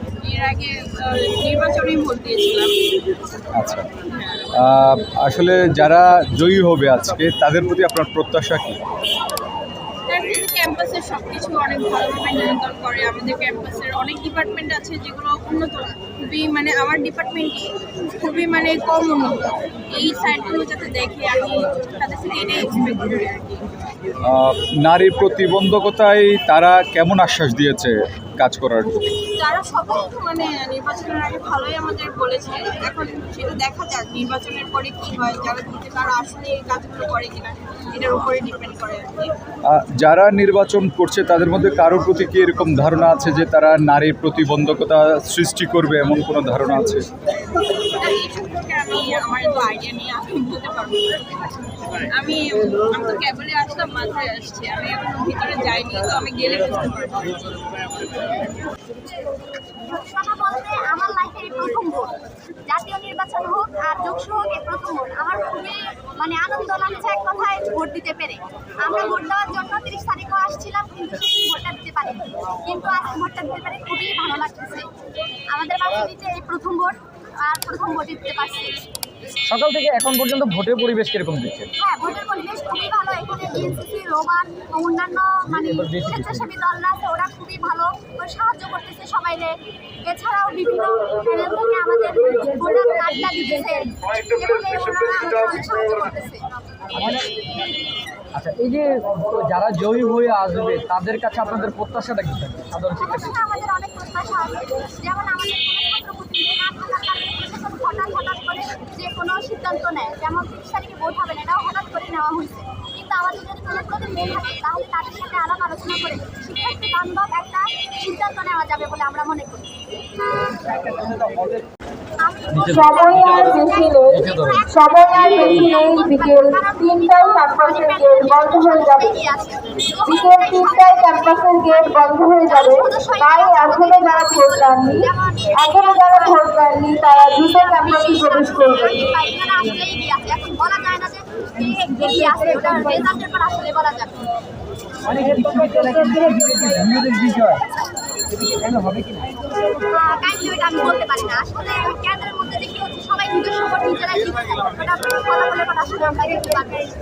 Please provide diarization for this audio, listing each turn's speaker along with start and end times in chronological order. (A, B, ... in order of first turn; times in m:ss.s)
0:00.2-0:02.8 A
0:03.5-0:03.9 B
0:04.5-0:08.8 B
0:10.1-0:23.7 A
0:24.2-0:29.1 B
0:29.4-0:39.3 A
0:39.6-0:47.1 B
0:47.8-0:51.3 A
0:52.0-0:57.6 A
0:59.9-1:14.9 C
1:15.5-1:18.8 C
1:19.5-1:21.7 D
1:21.8-1:36.4 C
1:25.6-1:26.5 D
1:36.9-1:37.3 D
1:38.3-1:43.4 D
1:43.0-1:59.7 C
2:00.6-2:01.6 D
2:02.2-2:16.4 C
2:02.5-2:03.6 D
2:02.6-2:09.1 E
2:04.1-2:04.6 D
2:10.0-2:19.0 E
2:17.5-2:24.2 C
2:25.0-2:27.6 D
2:28.4-2:29.3 D
2:29.9-2:36.8 C